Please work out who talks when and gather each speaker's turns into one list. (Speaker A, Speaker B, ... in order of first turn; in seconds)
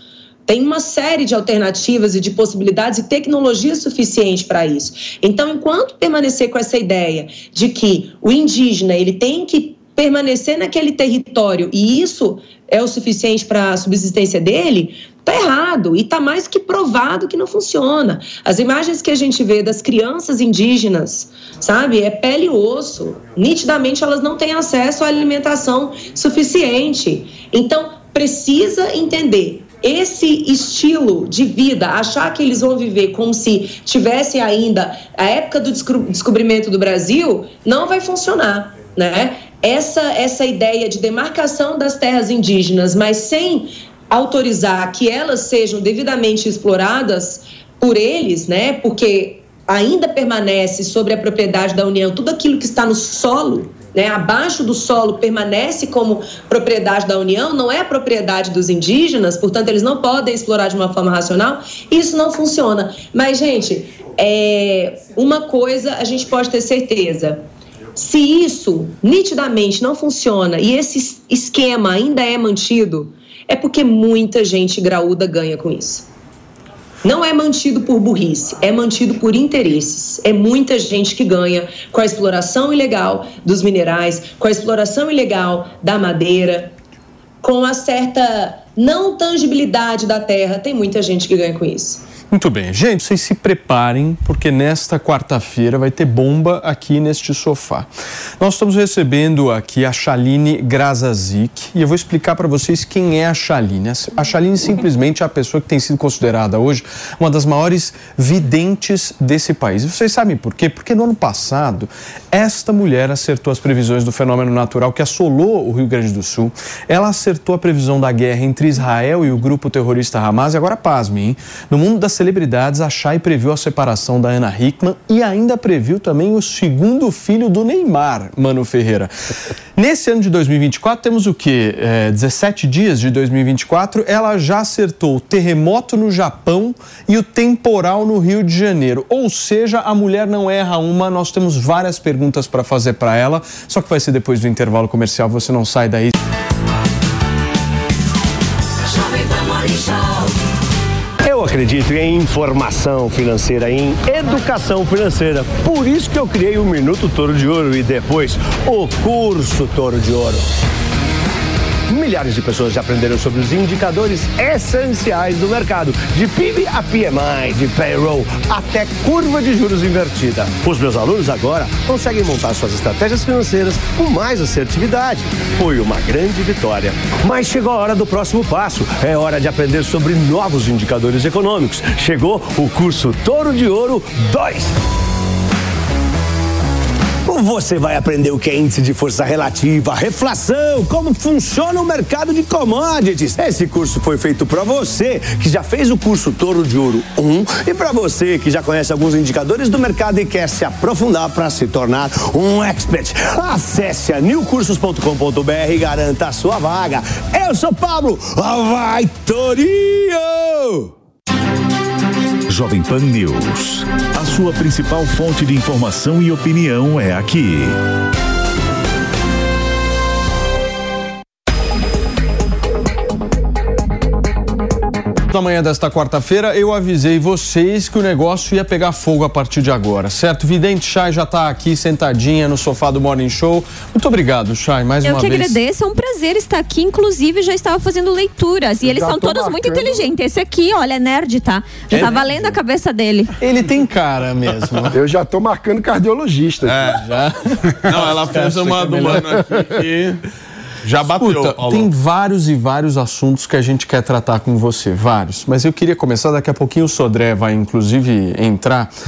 Speaker A: 0.5-76.1, 77.0-86.7, 87.4-92.0
Speaker B: 92.3-97.9, 98.4-129.1, 129.8-146.1, 225.3-235.6, 241.9-242.2, 243.4-245.0, 246.9-249.4, 251.2-258.9
Speaker C: 151.2-160.4, 161.9-184.8, 187.3-210.9
Speaker D: 212.5-217.8
Speaker E: 235.0-243.3
Speaker F: 238.8-240.1, 244.9-247.0
Speaker G: 246.7-247.0, 247.9-250.2, 250.8-251.9